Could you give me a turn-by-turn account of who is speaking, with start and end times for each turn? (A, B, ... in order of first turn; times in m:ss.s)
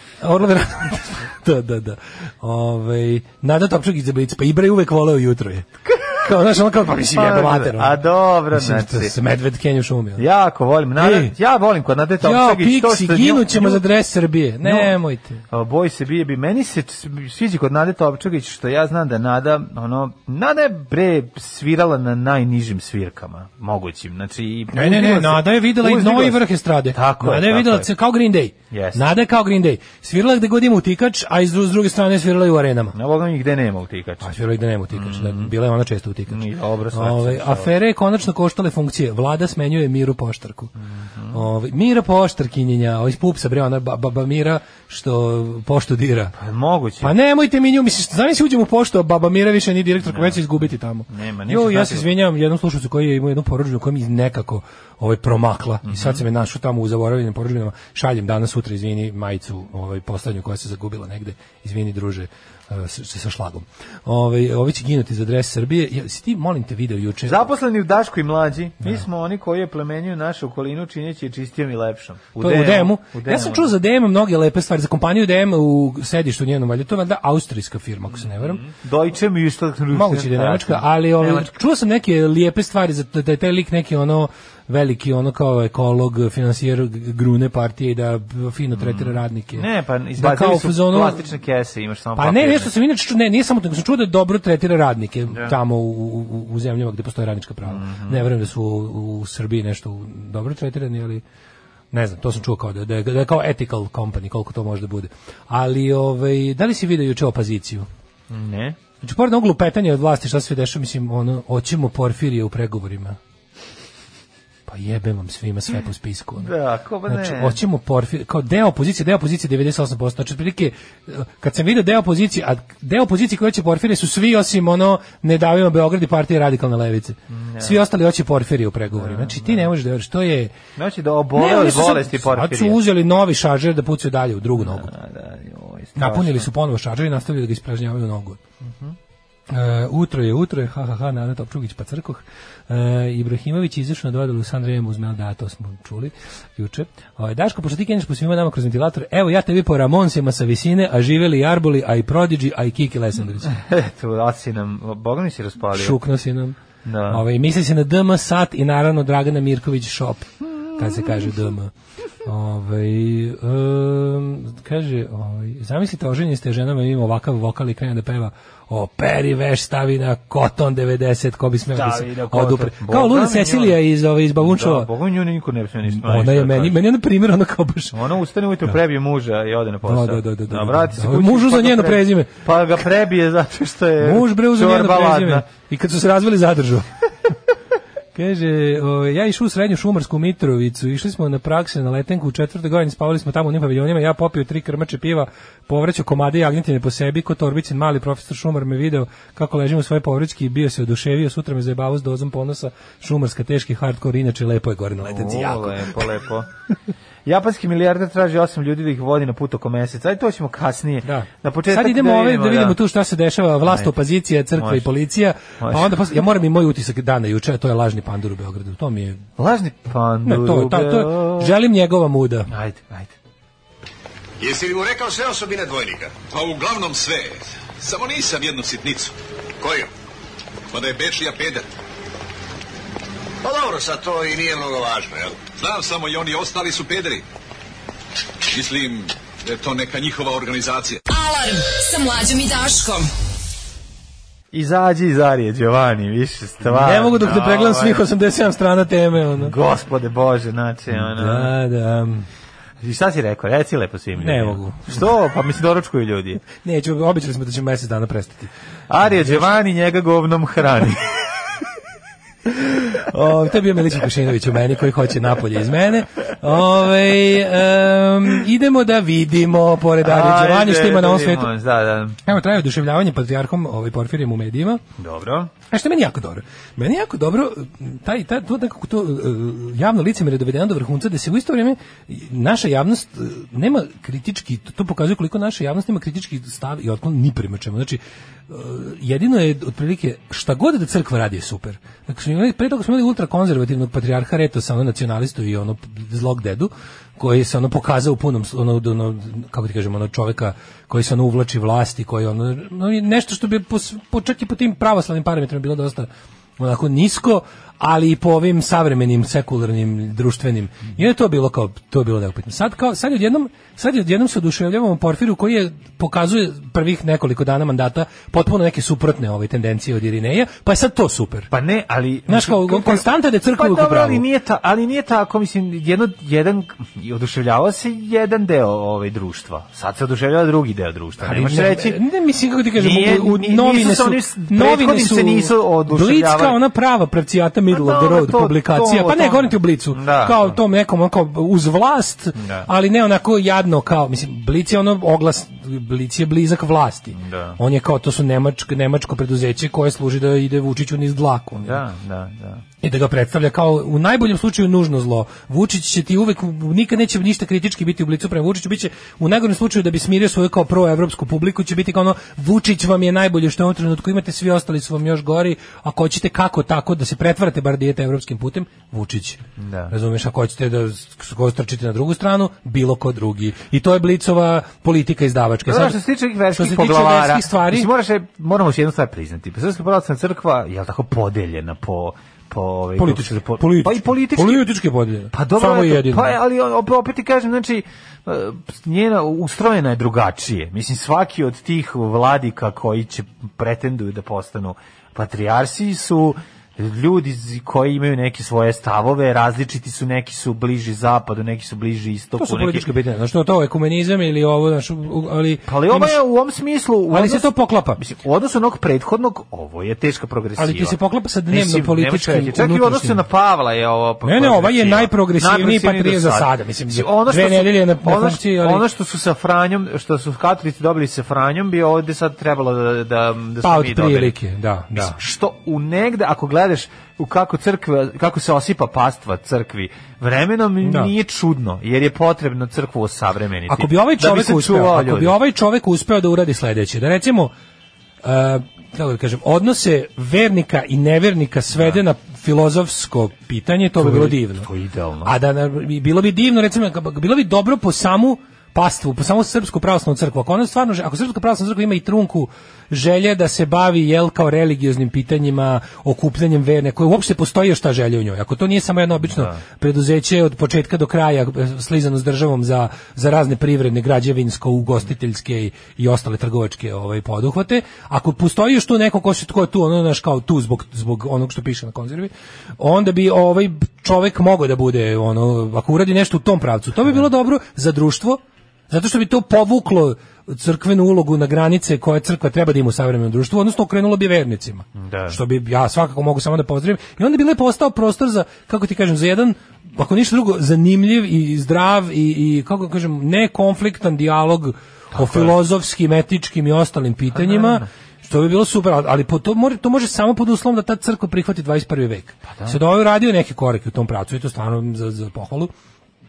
0:00.2-0:10.2 A
0:07.1-0:09.2 B
0:10.2-0:13.8 B
0:11.0-0:11.3 A
0:12.2-0:15.4 A
0:14.6-0:14.9 B
0:15.5-0:27.9 B
0:24.7-0:33.0 A
0:28.7-0:29.0 B
0:32.9-0:34.3 B
0:34.2-0:40.7 A
0:34.9-0:35.5 B
0:36.3-0:37.7 B
0:40.8-0:41.4 B
0:41.3-0:46.4 A
0:46.4-0:47.1 B
0:47.0-1:07.5 A
0:50.0-0:50.4 B
0:51.1-0:52.1 B
0:55.8-0:56.2 B
1:07.3-1:13.7 B
1:12.4-1:18.6 A
1:18.4-1:21.5 B
1:19.9-1:31.3 A
1:28.8-1:32.7 B
1:32.2-1:41.2 A
1:37.7-1:38.2 B
1:41.9-1:47.9 A
1:48.3-1:48.8 B
1:49.0-1:53.2 A
1:54.7-1:56.5 A
1:56.4-1:57.6 B
1:57.1-2:10.5 A
2:07.3-2:07.8 B
2:09.0-2:09.7 B
2:10.8-2:12.8 B
2:11.3-2:14.9 A
2:14.6-2:16.5 B
2:16.0-2:18.4 A
2:18.6-2:19.0 B
2:19.5-2:33.5 A
2:33.5-2:36.0 B
2:35.7-2:36.6 A
2:36.8-2:37.2 B
2:37.1-2:41.7 A
2:42.2-2:54.9 A
2:51.7-2:53.8 B
2:54.4-2:56.8 B
2:55.9-2:58.0 A
2:57.9-3:05.5 B
2:59.8-3:02.3 A
3:04.0-3:06.9 A
3:08.2-3:26.1 A
3:25.0-3:26.5 B
3:27.3-3:32.8 B
3:31.0-3:39.2 A
3:33.7-3:33.9 B
3:34.6-3:34.9 B
3:35.6-3:35.9 B
3:39.4-3:41.5 B
3:40.2-3:42.5 A
3:42.5-3:43.2 B
3:44.4-3:46.2 C
3:46.2-3:49.1 D
3:49.6-3:49.9 C
3:50.7-3:51.7 D
3:53.4-3:55.4 C
3:55.5-3:57.2 D
3:58.5-4:01.0 D
4:01.1-4:03.1 E
4:04.5-4:08.0 B
4:06.6-4:09.6 A
4:09.4-4:11.5 B
4:10.9-4:12.3 A
4:12.8-4:16.4 B
4:14.2-4:15.1 A
4:16.6-4:18.5 A
4:18.9-4:21.1 B
4:19.1-4:19.5 A
4:22.5-4:31.5 A
4:30.0-4:32.2 B
4:32.3-4:34.8 A
4:35.0-4:35.5 B
4:35.7-5:21.5 A
5:21.5-5:32.0 B
5:22.3-5:24.2 A
5:31.2-5:51.8 A
5:32.8-5:36.6 B
5:37.7-5:40.6 B
5:42.4-5:42.7 B
5:47.1-5:47.6 B
5:51.6-5:52.6 B
5:52.8-6:16.0 A
6:09.6-6:09.9 B
6:15.7-6:24.6 B
6:16.5-6:17.9 A
6:23.0-6:26.4 A
6:25.3-6:42.9 B
6:42.4-6:46.2 A
6:45.7-6:51.0 B
6:47.1-6:48.0 A
6:50.6-6:53.2 A
6:51.5-7:04.4 B
6:54.2-6:58.8 A
7:03.6-7:05.2 A
7:04.9-7:15.4 B
7:10.8-7:11.1 A
7:13.7-7:17.5 A
7:18.2-7:24.7 A
7:24.0-7:25.3 B
7:25.2-8:25.7 A
7:39.3-7:39.6 B
8:05.0-8:05.4 B
8:15.1-8:15.6 B
8:17.3-8:17.9 B
8:22.5-8:22.8 B